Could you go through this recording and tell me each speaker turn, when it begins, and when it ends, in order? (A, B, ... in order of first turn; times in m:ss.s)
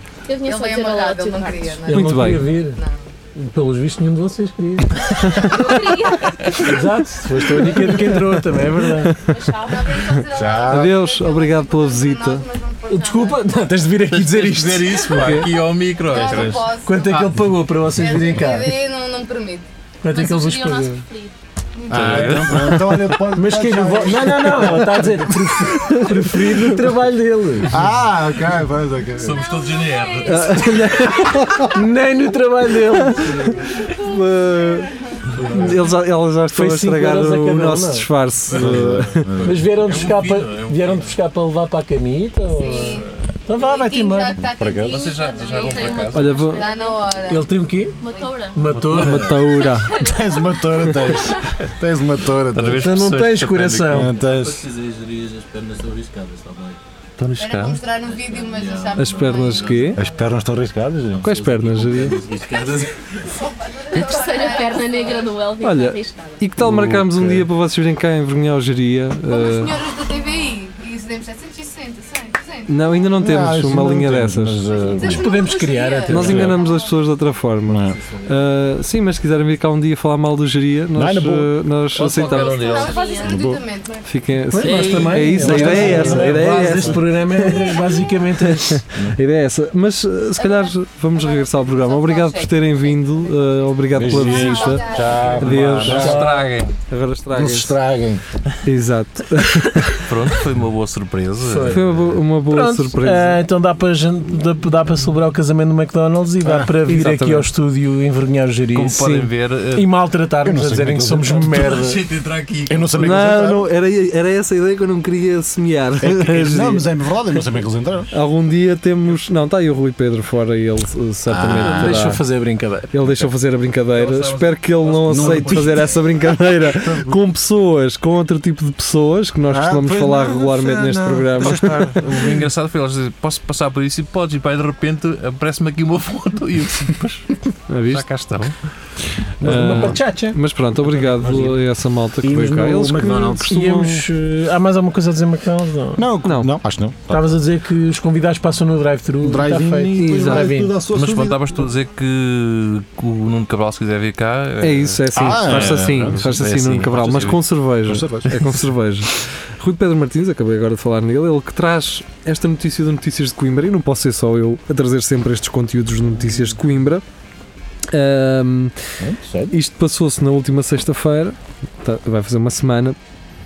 0:00.3-0:01.8 A
0:00.3-0:03.0 B
0:01.8-0:02.8 C
0:01.9-0:02.5 D
0:03.4-0:09.2 C
0:05.3-0:06.8 B
0:08.9-0:12.4 D
0:09.2-0:13.6 B
0:10.3-0:11.0 E
0:12.9-0:15.5 C
0:14.1-0:17.3 F
0:15.1-0:15.5 D
0:16.1-0:17.3 B
0:16.2-0:18.8 C
0:16.2-0:16.5 E
0:17.8-0:19.7 B
0:20.0-0:21.0 C
0:20.1-0:21.3 A
0:21.8-0:22.7 B
0:21.9-0:25.7 E
0:21.9-0:23.1 F
0:23.3-0:27.8 C
0:25.7-0:26.9 D
0:27.7-0:29.5 E
0:29.2-0:31.1 F
0:29.6-0:30.8 B
0:30.2-0:31.8 D
0:31.6-0:33.7 C
0:32.9-0:34.9 D
0:33.8-0:35.3 B
0:35.4-0:35.8 E
0:35.4-0:35.8 C
0:35.5-0:39.3 D
0:36.5-0:38.1 C
0:38.5-0:41.1 F
0:38.5-0:39.7 E
0:39.4-0:44.4 C
0:42.5-0:48.5 B
0:44.4-0:45.0 E
0:44.8-0:46.5 F
0:45.0-0:47.2 A
0:46.1-0:46.7 D
0:47.3-0:48.0 C
0:48.0-0:48.7 A
0:48.5-0:49.5 C
0:48.6-0:49.3 F
0:48.9-0:50.0 D
0:49.6-0:50.1 A
0:49.9-0:53.0 E
0:52.5-0:59.9 F
0:52.8-0:54.2 C
0:53.9-0:54.7 E
0:57.4-1:00.0 B
0:59.0-1:00.0 D
1:00.0-1:01.8 E
1:01.2-1:03.0 F
1:01.2-1:02.2 D
1:01.9-1:02.6 C
1:02.3-1:05.4 B
1:03.9-1:06.4 A
1:05.6-1:09.8 D
1:06.6-1:07.5 F
1:09.3-1:13.2 B
1:12.7-1:14.6 D
1:13.2-1:15.4 E
1:14.7-1:17.0 B
1:15.0-1:16.6 C
1:16.1-1:22.6 D
1:16.2-1:16.6 E
1:17.7-1:18.0 E
1:21.0-1:21.6 E
1:22.0-1:23.2 F
1:22.2-1:24.1 B
1:22.3-1:23.4 A
1:23.2-1:23.6 E
1:24.1-1:27.8 D
1:24.5-1:28.8 C
1:24.6-1:27.0 F
1:24.6-1:25.0 B
1:25.4-1:26.4 E
1:28.4-1:36.2 D
1:30.4-1:35.5 B
1:33.9-1:36.4 E
1:35.8-1:36.7 F
1:35.9-1:36.6 C
1:36.9-1:37.8 D
1:37.3-1:38.2 E
1:38.6-1:40.1 D
1:40.0-1:42.0 F
1:41.4-1:41.9 C
1:41.6-1:43.4 D
1:42.5-1:49.2 C
1:46.4-1:46.8 E
1:46.9-1:47.5 D
1:48.7-1:49.9 F
1:49.0-1:49.3 D
1:49.7-1:52.0 C
1:50.4-1:51.6 E
1:51.3-1:53.2 F
1:52.7-1:53.7 E
1:53.0-1:56.9 D
1:56.0-1:58.1 E
1:58.1-2:02.2 D
2:01.3-2:02.0 E
2:01.6-2:02.9 C
2:02.9-2:12.0 D
2:03.9-2:06.0 F
2:05.1-2:05.9 E
2:09.5-2:12.3 E
2:11.4-2:17.4 F
2:17.7-2:18.1 D
2:17.9-2:18.6 F
2:19.4-2:20.4 C
2:19.4-2:24.1 D
2:20.9-2:21.6 E
2:22.2-2:23.6 E
2:23.2-2:26.1 C
2:26.0-2:27.4 E
2:26.2-2:26.5 D
2:27.1-2:30.8 C
2:29.2-2:31.6 E
2:30.0-2:30.5 D
2:30.9-2:37.4 F
2:34.6-2:47.0 D
2:35.1-2:36.2 E
2:37.9-2:38.4 E
2:47.9-2:49.0 D
2:49.0-2:49.6 E
2:49.5-2:53.0 D